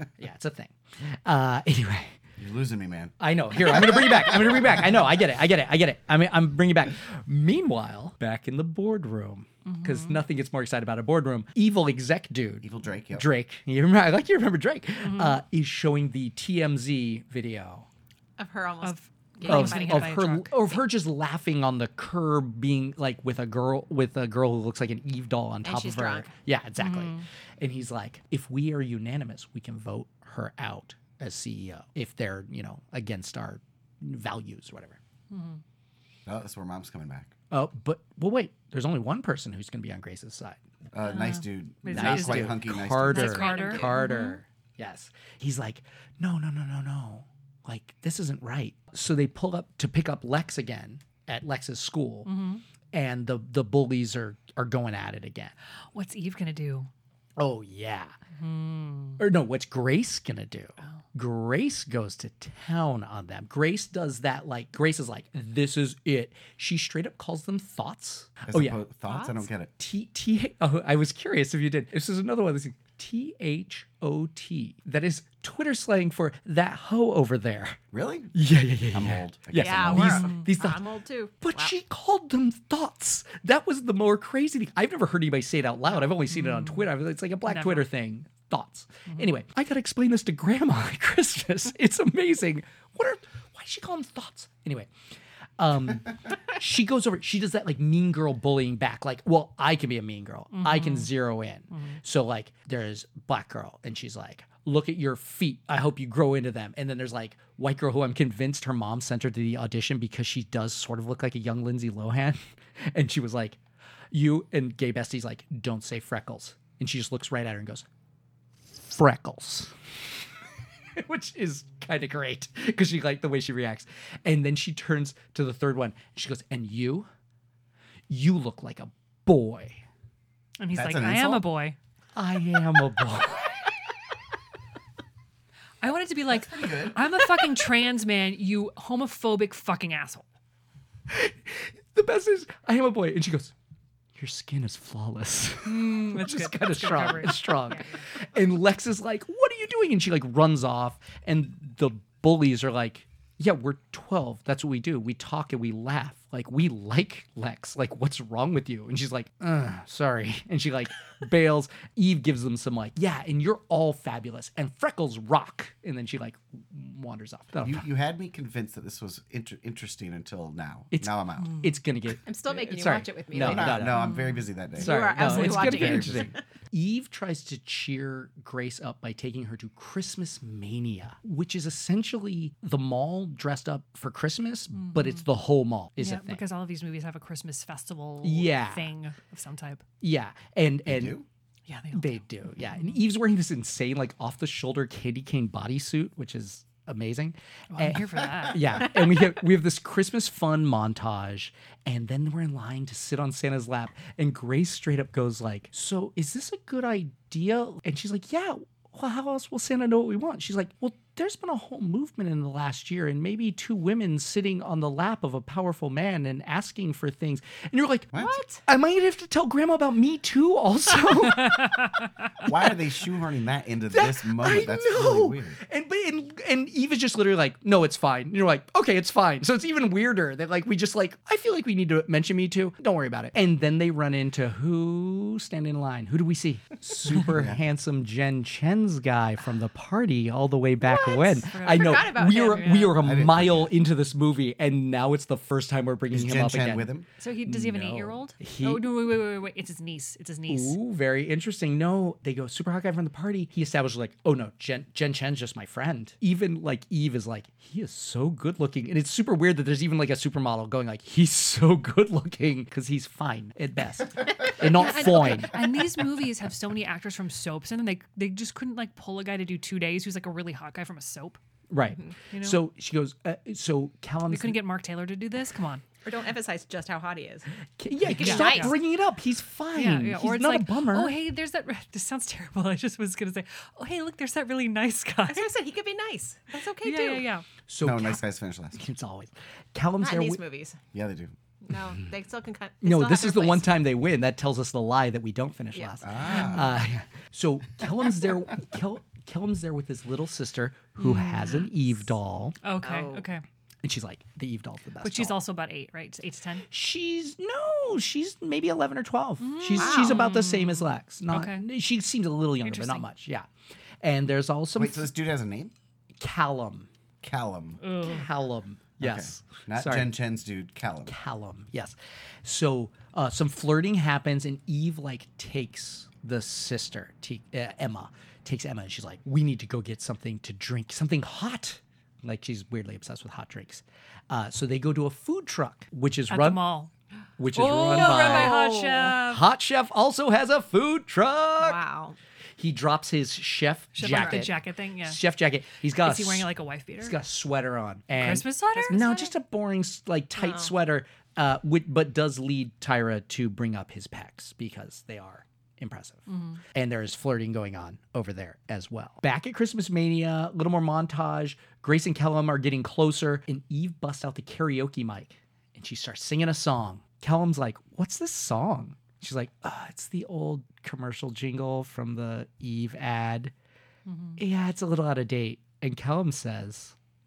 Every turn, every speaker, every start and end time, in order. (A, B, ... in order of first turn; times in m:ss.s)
0:00.2-0:02.2 A
0:02.4-0:04.6 B
0:03.2-0:17.9 A
0:09.6-0:10.2 C
0:12.6-0:13.3 B
0:15.0-0:15.4 C
0:18.4-0:20.3 D
0:18.8-0:20.6 C
0:19.4-0:35.0 A
0:25.6-0:26.3 D
0:26.8-0:27.2 C
0:35.3-0:35.6 C
0:36.2-0:37.3 B
0:37.5-0:40.6 A
0:40.9-0:43.3 B
0:41.1-0:44.4 C
0:41.8-0:52.3 A
0:43.2-0:44.0 D
0:52.2-0:52.6 C
0:52.9-0:55.5 A
0:55.9-0:56.9 C
0:57.4-0:58.1 A
0:58.4-0:59.2 C
0:59.2-1:08.8 A
1:08.5-1:09.7 B
1:09.1-1:09.4 D
1:09.8-1:17.8 A
1:17.9-1:20.3 B
1:18.3-1:20.8 A
1:19.5-1:21.7 D
1:20.1-1:20.5 C
1:21.4-1:34.9 A
1:26.3-1:26.8 C
1:27.4-1:27.8 C
1:35.6-1:53.6 A
1:40.5-1:41.1 C
1:54.1-1:57.8 A
1:58.8-1:59.7 A
2:01.0-2:07.1 A
2:08.1-2:09.8 A
2:10.6-2:11.8 C
2:10.7-2:11.5 B
2:12.1-2:13.5 A
2:15.8-2:20.2 C
2:16.3-2:17.2 B
2:21.1-2:23.5 A
2:24.1-2:47.8 A
2:25.6-2:27.8 C
2:47.6-2:51.6 B
2:50.9-2:54.1 A
2:52.2-2:53.9 D
2:53.3-2:56.3 B
2:54.0-2:54.4 C
2:54.8-2:56.4 D
2:54.8-3:06.4 A
3:04.7-3:05.2 C
3:06.0-3:09.8 C
3:08.2-3:08.9 A
3:10.0-3:11.2 A
3:10.9-3:11.2 B
3:11.7-3:13.0 C
3:11.9-3:41.9 A
3:17.7-3:18.9 C
3:38.1-3:38.4 B
3:38.1-3:38.6 D
3:41.5-3:41.8 C
3:42.4-3:45.6 B
3:43.9-4:06.9 A
3:57.1-3:57.6 B
4:00.8-4:03.0 D
4:01.5-4:02.8 C
4:02.9-4:03.7 B
4:06.1-4:07.0 B
4:07.2-4:10.8 C
4:07.4-4:09.0 A
4:10.5-4:25.6 A
4:24.6-4:31.4 C
4:31.7-4:34.6 A
4:32.3-4:32.6 C
4:34.3-4:35.8 C
4:36.0-4:37.5 D
4:37.8-4:41.2 A
4:38.0-4:38.7 D
4:38.2-4:38.7 C
4:39.7-4:45.5 C
4:45.3-4:47.3 D
4:46.8-4:47.4 C
4:47.7-4:48.2 A
4:47.8-4:48.8 B
4:48.7-4:50.4 A
4:50.0-4:50.8 D
4:50.9-4:51.3 B
4:51.6-4:53.7 D
4:52.8-5:02.6 A
4:56.0-4:56.8 B
5:01.0-5:01.7 C
5:02.6-5:03.4 C
5:02.8-5:03.3 D
5:03.8-5:05.4 A
5:05.0-5:06.7 C
5:06.7-5:13.5 A
5:09.4-5:11.6 C
5:09.7-5:10.3 D
5:12.6-5:13.1 C
5:14.0-5:15.1 A
5:14.8-5:15.7 B
5:16.2-5:16.9 A
5:17.2-5:17.8 B
5:17.8-5:18.2 C
5:17.9-5:20.1 A
5:19.0-5:21.1 B
5:21.0-5:36.6 A
5:36.3-5:36.9 C
5:37.4-5:41.8 A
5:37.5-5:39.5 C
5:37.9-5:39.1 D
5:41.6-5:42.2 D
5:42.6-6:13.5 A
5:43.9-5:45.2 C
5:46.0-5:47.2 C
5:48.2-5:49.3 C
5:48.8-5:49.3 D
5:50.4-5:50.7 D
5:56.3-5:56.6 C
6:14.1-6:14.4 C
6:14.4-6:16.9 A